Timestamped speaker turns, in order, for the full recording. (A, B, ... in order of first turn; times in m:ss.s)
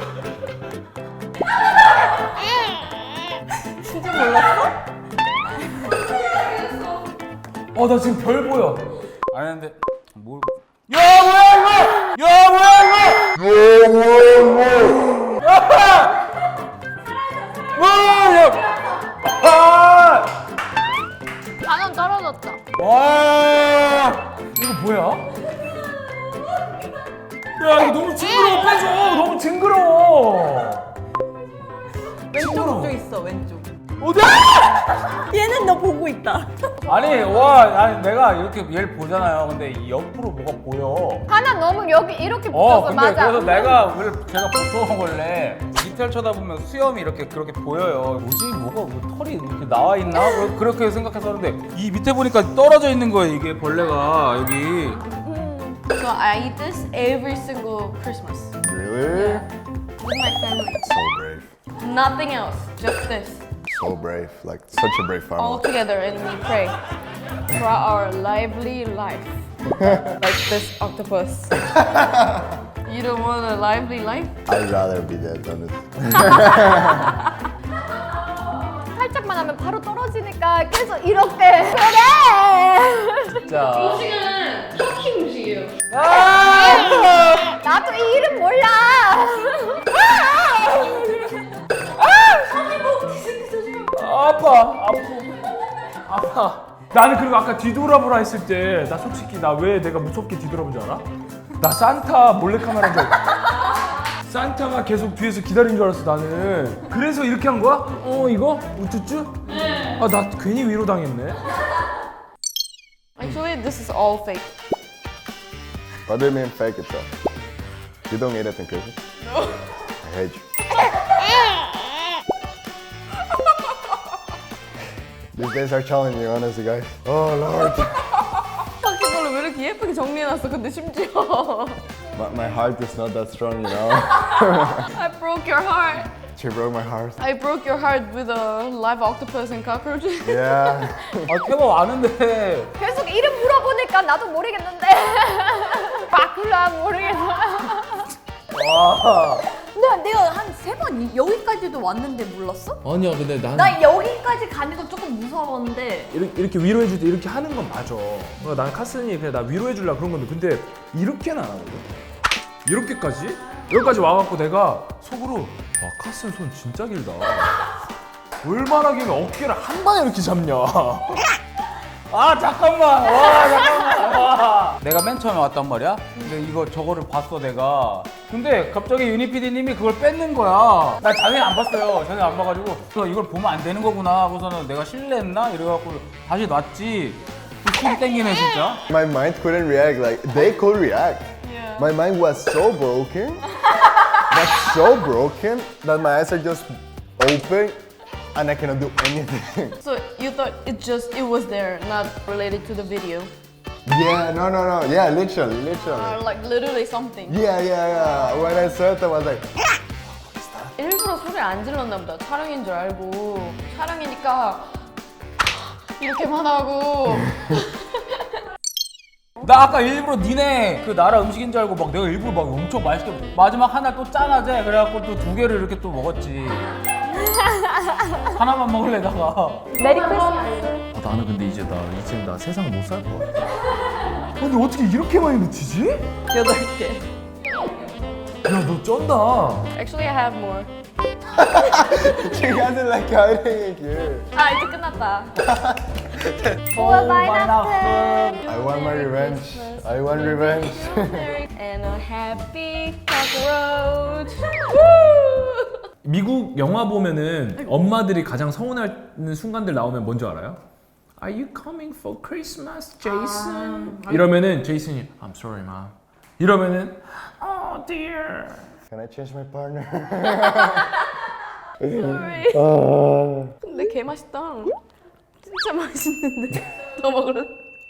0:03.8-0:04.8 A
0:07.8-0:08.9 B
0:09.3-0:16.2 C
0:17.6-0:20.3 C
0:21.6-0:22.6 D
0:22.8-0:24.2 C
0:24.6-0:25.3 B
0:27.6-0:30.9 B
0:32.3-0:33.6 E
0:32.4-0:33.0 B
0:34.0-0:35.0 B
0:35.3-0:36.7 E
0:36.9-0:41.3 C
0:41.3-0:43.8 D
0:42.5-0:55.0 C
0:55.2-0:58.5 A
0:58.6-0:59.5 F
0:59.1-0:59.4 A
1:00.0-1:00.9 A
1:00.8-1:01.5 F
1:01.8-1:03.4 A
1:03.7-1:05.6 F
1:05.4-1:06.8 A
1:07.5-1:09.4 A
1:09.8-1:10.1 F
1:10.2-1:11.6 A
1:11.9-1:12.4 F
1:12.8-1:14.3 A
1:14.5-1:17.2 F
1:19.0-1:23.4 D
1:23.4-1:24.1 C
1:23.8-1:25.7 A
1:25.9-1:27.6 C
1:27.6-1:29.9 D
1:30.4-1:31.0 C
1:30.5-1:31.0 B
1:32.6-1:33.9 A
1:34.0-1:35.5 B
1:36.1-1:41.0 B
1:41.6-1:43.4 B
1:44.2-1:51.4 B
1:53.2-1:54.5 A
1:56.1-1:57.1 F
1:58.1-1:59.0 F
2:00.0-2:00.4 F
2:05.3-2:08.1 F
2:08.8-2:11.8 A
2:12.2-2:14.9 F
2:14.8-2:16.1 A
2:16.3-2:17.2 F
2:17.2-2:20.8 A
2:20.2-2:21.3 F
2:21.3-2:22.7 C
2:22.8-2:28.0 D
2:28.5-2:29.4 C
2:29.6-2:32.8 E
2:32.8-2:33.8 B
2:33.5-2:36.1 E
2:36.1-2:41.9 B
2:42.7-2:47.6 B
2:48.4-2:51.3 B
2:52.1-3:08.8 C
3:08.9-3:13.4 F
3:11.4-3:11.9 A
3:14.3-3:17.8 F
3:18.3-3:19.8 F
3:19.8-3:23.3 A
3:23.9-3:26.2 F
3:25.9-3:27.4 A
3:27.3-3:29.5 F
3:30.1-3:30.7 B
3:30.8-3:34.6 A
3:36.0-3:37.4 A
3:39.4-3:46.7 C
3:47.3-3:48.0 D
3:48.2-3:49.7 C
3:49.7-3:50.8 A
3:49.8-3:50.4 E
3:50.9-3:53.3 B
3:54.4-3:56.1 B
3:56.4-3:57.8 A
3:58.5-3:59.7 B
3:59.7-4:00.7 A
4:01.3-4:04.3 F
4:04.4-4:05.3 A
4:05.4-4:06.3 F
4:06.7-4:08.5 C
4:06.8-4:15.7 A
4:08.5-4:11.3 F
4:16.0-4:20.6 B
4:21.2-4:28.6 B
4:23.0-4:24.1 A
4:23.2-4:24.0 C
4:28.9-4:30.9 F
4:31.8-4:32.5 A
4:32.5-4:33.5 F
4:33.6-4:34.8 A
4:35.4-4:37.5 A